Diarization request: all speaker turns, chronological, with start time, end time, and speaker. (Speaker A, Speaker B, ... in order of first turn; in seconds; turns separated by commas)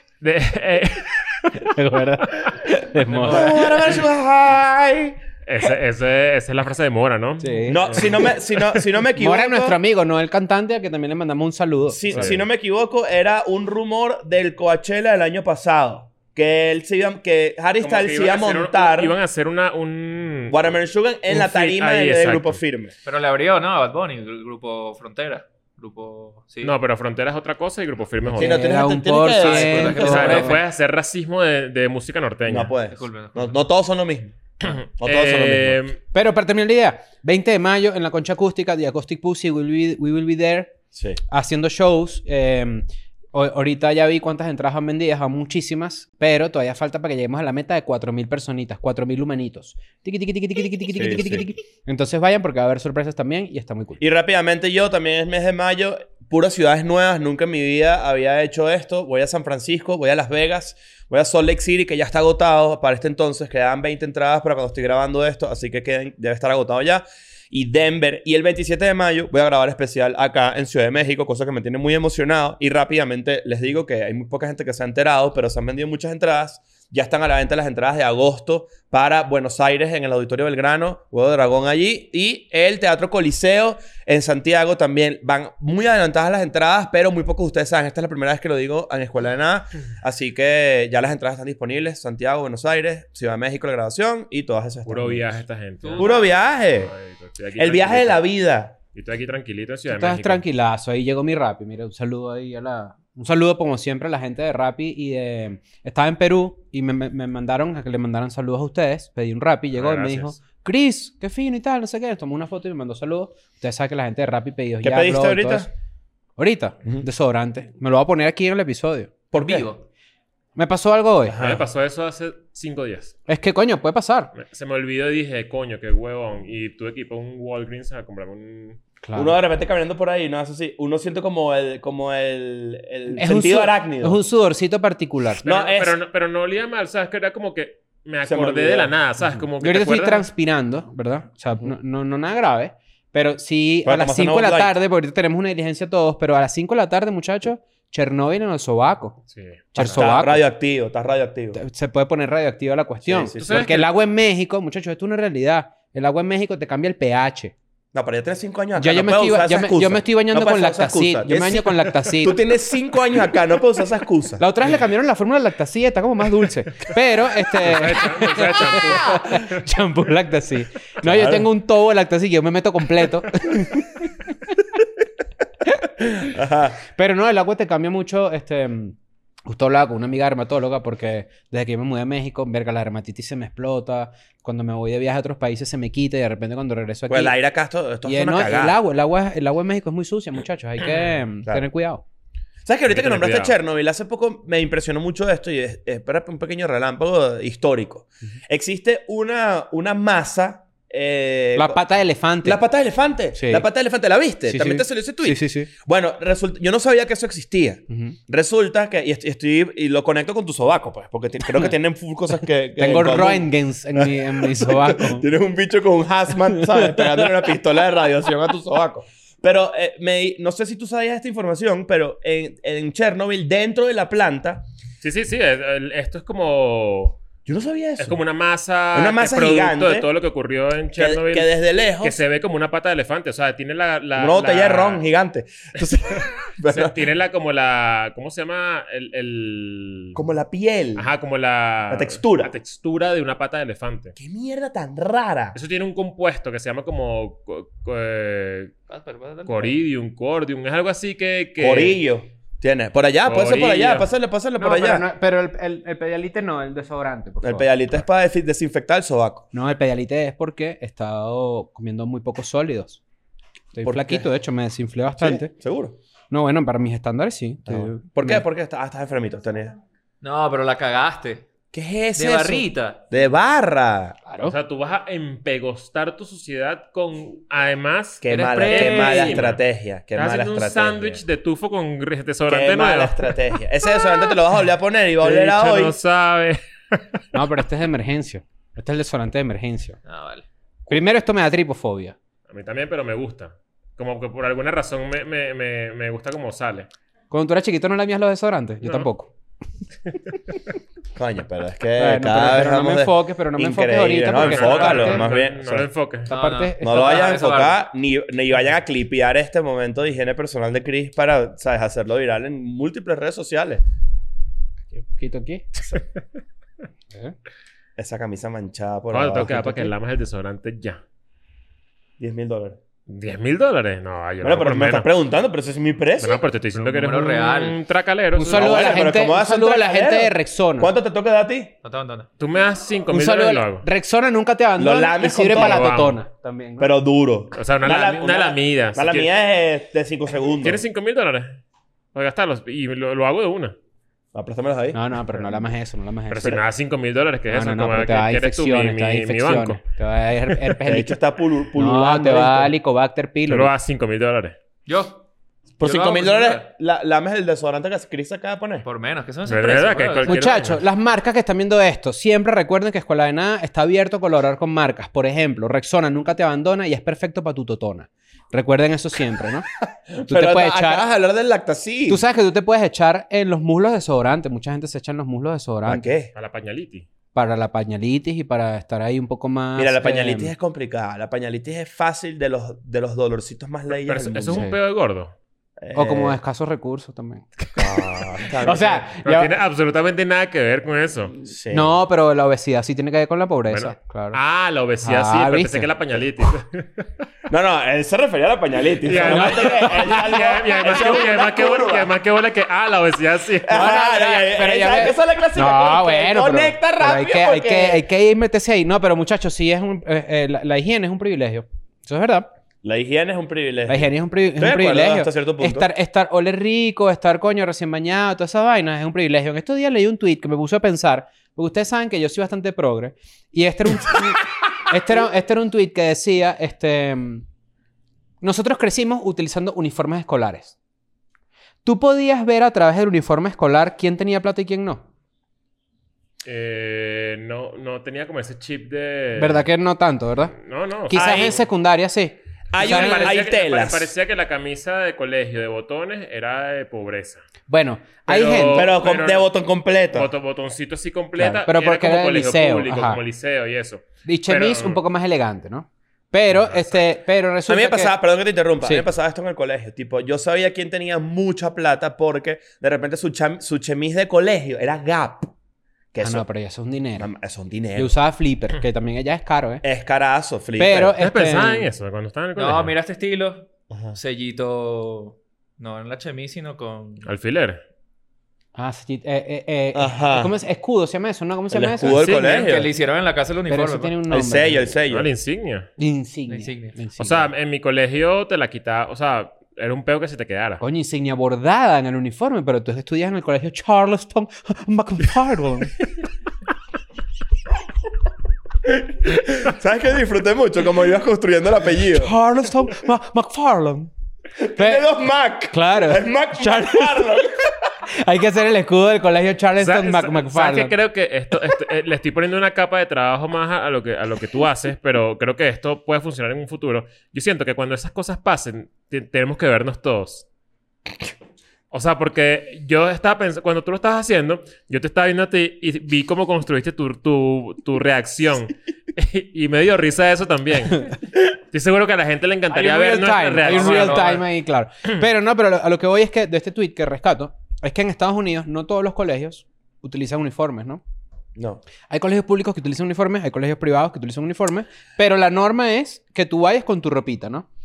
Speaker A: 0.2-1.7, Speaker B: 1.6-3.9, Speaker C: 3.3-5.2, Speaker A: 5.5-8.8, Speaker B: 7.4-8.1, Speaker C: 7.7-9.8, Speaker B: 9.2-12.3, Speaker C: 11.9-19.1, Speaker A: 12.1-12.4, Speaker A: 17.8-20.8, Speaker C: 20.5-22.9, Speaker A: 21.3-22.6, Speaker D: 23.1-26.8, Speaker A: 26.6-28.6, Speaker B: 28.3-30.6, Speaker C: 28.4-30.6, Speaker D: 29.4-30.6, Speaker A: 29.8-32.7, Speaker C: 32.5-34.4, Speaker D: 32.9-33.6, Speaker A: 34.6-36.0, Speaker C: 35.0-35.8, Speaker B: 36.1-40.7, Speaker C: 40.9-41.2, Speaker B: 41.3-54.0, Speaker C: 50.9-51.5, Speaker C: 54.0-95.4, Speaker A: 94.8-96.2, Speaker D: 95.8-96.3, Speaker C: 96.0-96.9, Speaker A: 96.8-98.2, Speaker C: 97.6-98.8, Speaker A: 98.9-100.4, Speaker B: 99.9-115.7, Speaker A: 109.8-110.4, Speaker C: 114.8-115.7, Speaker B: 116.4-119.7, Speaker C: 119.3-119.8, Speaker B: 120.5-121.4, Speaker C: 121.3-121.7, Speaker A: 121.4-123.2, Speaker B: 123.3-124.3, Speaker A: 124.3-128.8, Speaker B: 129.0-129.4, Speaker C: 129.1-134.2, Speaker B: 133.1-135.4, Speaker C: 135.4-135.9, Speaker A: 135.4-140.3, Speaker C: 138.3-138.9, Speaker B: 139.6-149.2, Speaker C: 143.8-144.7, Speaker A: 149.3-150.0, Speaker B: 149.7-150.4, Speaker C: 149.8-151.6, Speaker B: 151.5-157.5, Speaker C: 153.0-153.8, Speaker A: 153.4-153.9, Speaker C: 157.9-164.4, Speaker B: 158.8-162.4, Speaker B: 164.4-174.1, Speaker A: 167.6-169.6, Speaker C: 171.0-171.5, Speaker C: 176.2-176.8, Speaker B: 176.9-187.4, Speaker C: 187.1-188.8, Speaker B: 188.1-192.0, Speaker C: 192.7-201.8, Speaker A: 192.9-193.6, Speaker B: 201.6-202.6, Speaker C: 202.4-224.7, Speaker B: 203.3-203.7, Speaker B: 204.5-205.7, Speaker B: 207.9-208.2, Speaker B: 212.8-215.3, Speaker B: 216.6-217.3, Speaker A: 225.0-227.2, Speaker C: 227.5-228.2, Speaker A: 228.0-231.5, Speaker C: 228.9-230.1, Speaker C: 231.0-232.2, Speaker A: 232.0-235.0, Speaker C: 234.2-237.0, Speaker A: 235.8-240.2, Speaker C: 240.2-241.1, Speaker A: 241.0-244.2, Speaker C: 241.9-242.5, Speaker C: 244.2-245.6, Speaker A: 245.5-248.7, Speaker D: 248.9-249.8, Speaker A: 249.4-252.0, Speaker C: 251.6-255.1, Speaker A: 253.3-254.1, Speaker B: 254.6-258.0, Speaker C: 257.4-259.5, Speaker B: 259.5-263.0, Speaker B: 263.7-265.5, Speaker C: 263.8-264.3, Speaker C: 265.2-266.0, Speaker B: 266.3-268.4, Speaker C: 267.7-269.8, Speaker D: 270.2-271.5, Speaker C: 271.7-274.2, Speaker D: 272.2-273.1, Speaker B: 274.3-274.6, Speaker A: 274.4-279.6, Speaker C: 278.2-281.2, Speaker B: 278.8-279.3, Speaker A: 280.1-283.3, Speaker C: 282.5-286.0, Speaker A: 285.2-287.2, Speaker B: 287.3-290.0, Speaker D: 290.1-290.5, Speaker B: 290.9-292.1, Speaker A: 292.5-296.9, Speaker B: 297.3-299.3, Speaker C: 301.2-305.9, Speaker B: 302.0-305.3, Speaker A: 304.4-306.3, Speaker B: 306.3-307.4, Speaker D: 306.3-307.8, Speaker C: 306.8-313.8, Speaker B: 314.9-315.7, Speaker C: 318.0-319.9, Speaker A: 319.1-321.0, Speaker C: 322.2-322.8, Speaker A: 323.1-325.1, Speaker C: 324.4-326.4, Speaker A: 326.2-329.0, Speaker D: 326.8-327.8, Speaker B: 328.4-330.9, Speaker C: 328.5-331.7, Speaker D: 331.8-332.3, Speaker A: 332.4-333.9, Speaker B: 333.1-336.9, Speaker C: 334.8-335.9, Speaker A: 335.5-336.2, Speaker C: 336.8-340.8, Speaker A: 337.5-339.3, Speaker A: 340.6-341.6, Speaker A: 342.1-343.8, Speaker C: 344.3-345.0, Speaker B: 344.9-346.6, Speaker A: 346.3-349.8, Speaker B: 347.5-351.2, Speaker C: 350.9-352.7, Speaker B: 351.7-353.7, Speaker A: 353.5-354.6, Speaker D: 354.9-355.2, Speaker C: 355.8-358.9, Speaker D: 355.8-356.7, Speaker D: 358.8-360.4, Speaker A: 359.4-360.8, Speaker B: 360.3-369.7, Speaker C: 370.1-372.2, Speaker B: 370.3-371.0, Speaker B: 372.1-376.1, Speaker C: 375.9-376.3, Speaker A: 376.4-377.1, Speaker B: 377.3-380.5, Speaker C: 379.8-384.7, Speaker A: 384.0-385.4, Speaker B: 384.5-384.8, Speaker C: 385.8-386.4, Speaker B: 385.9-387.5, Speaker C: 387.8-389.0, Speaker B: 388.6-389.5, Speaker A: 389.2-391.4, Speaker C: 391.4-391.9, Speaker B: 391.7-394.4, Speaker A: 393.7-397.1, Speaker B: 395.0-395.9, Speaker C: 397.5-402.1, Speaker A: 399.0-403.9, Speaker B: 399.2-400.2, Speaker C: 403.6-408.0, Speaker B: 403.7-412.5, Speaker C: 412.8-415.9, Speaker B: 413.9-427.4, Speaker B: 428.4-430.8, Speaker B: 431.9-435.1, Speaker A: 436.4-439.6, Speaker B: 439.4-440.6, Speaker A: 440.5-441.6, Speaker B: 441.1-443.4, Speaker C: 441.1-441.6, Speaker C: 442.7-444.1, Speaker A: 442.8-447.4, Speaker B: 447.7-448.9, Speaker A: 448.3-449.5, Speaker C: 448.7-450.3, Speaker A: 450.1-455.0, Speaker B: 451.4-453.2, Speaker B: 454.2-458.2, Speaker A: 456.6-456.9, Speaker C: 457.7-465.5, Speaker C: 466.1-466.4, Speaker B: 466.2-467.3, Speaker C: 467.2-468.2, Speaker B: 468.0-469.8, Speaker C: 469.8-471.2, Speaker B: 470.8-471.9, Speaker A: 471.2-472.9, Speaker D: 472.6-477.3, Speaker C: 473.9-474.2, Speaker A: 477.2-477.8, Speaker B: 478.8-482.3, Speaker C: 479.9-480.5, Speaker C: 481.7-482.9, Speaker D: 482.2-484.2, Speaker A: 482.3-482.6, Speaker B: 483.7-484.9, Speaker C: 484.3-485.3, Speaker A: 485.1-485.9, Speaker B: 486.0-487.5, Speaker D: 486.5-487.0, Speaker A: 487.2-490.8, Speaker B: 490.8-496.0, Speaker C: 498.9-502.3, Speaker B: 502.1-504.1, Speaker C: 504.6-507.9, Speaker B: 504.8-505.1, Speaker B: 505.7-507.3, Speaker B: 508.1-510.9, Speaker A: 509.8-520.5, Speaker A: 521.9-534.4, Speaker B: 532.7-541.0, Speaker D: 533.6-534.4, Speaker C: 541.6-541.8, Speaker B: 542.1-547.7